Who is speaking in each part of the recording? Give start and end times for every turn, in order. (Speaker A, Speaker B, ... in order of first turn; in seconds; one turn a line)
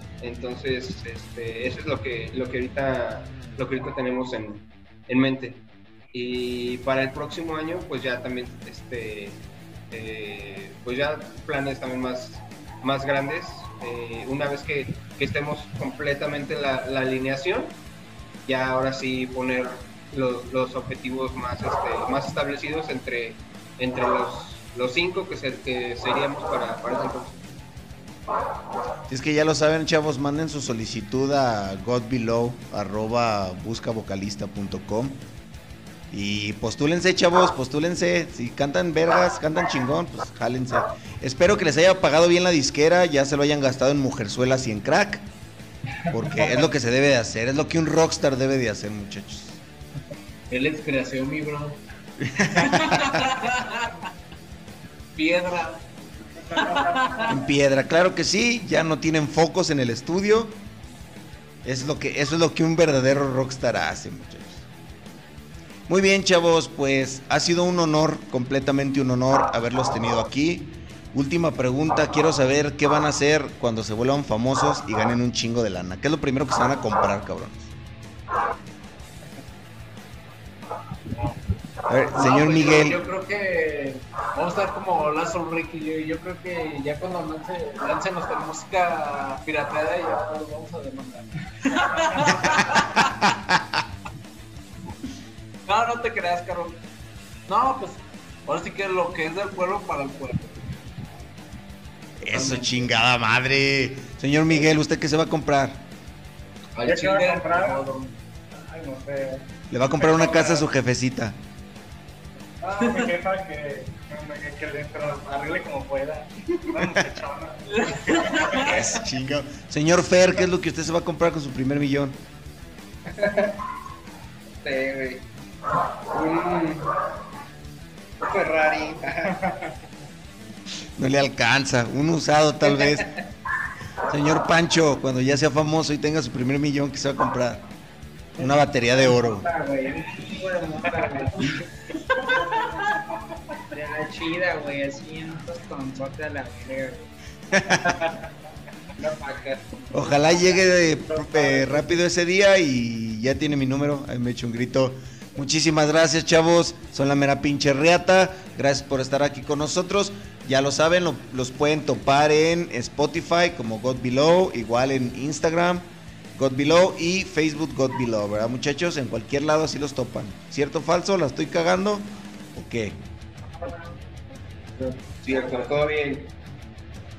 Speaker A: 0.2-17.8
Speaker A: 18.4-27.4
Speaker B: 29.1-35.2
Speaker B: 36.1-45.2
Speaker B: 46.1-49.6
Speaker C: 50.5-51.8
Speaker B: 52.3-53.1
Speaker C: 52.5-54.0
Speaker C: 55.1-55.8
Speaker C: 56.5-57.4
Speaker B: 57.2-60.6
Speaker B: 61.6-64.7
Speaker B: 65.9-77.7
Speaker B: 81.9-83.0
Speaker C: 82.1-93.1
Speaker B: 92.5-93.8
Speaker C: 95.7-96.8
Speaker C: 97.5-100.7
Speaker B: 102.2-105.9
Speaker C: 102.3-102.9
Speaker C: 106.7-108.2
Speaker D: 106.8-107.8
Speaker D: 108.5-109.5
Speaker B: 109.7-111.4
Speaker D: 110.0-110.7
Speaker D: 112.6-118.7
Speaker C: 112.8-113.1
Speaker B: 116.8-117.2
Speaker C: 117.8-118.7
Speaker B: 118.5-122.2
Speaker A: 123.1-123.6
Speaker A: 124.6-125.2
Speaker A: 126.1-126.9
Speaker A: 128.2-129.5
Speaker B: 131.0-133.1
Speaker B: 134.1-137.7
Speaker B: 138.4-139.5
Speaker E: 138.4-141.6
Speaker E: 142.2-142.5
Speaker E: 143.7-147.1
Speaker B: 147.5-148.0
Speaker E: 147.6-148.2
Speaker E: 149.0-149.8
Speaker B: 149.9-173.0
Speaker E: 151.1-151.7
Speaker A: 174.8-176.3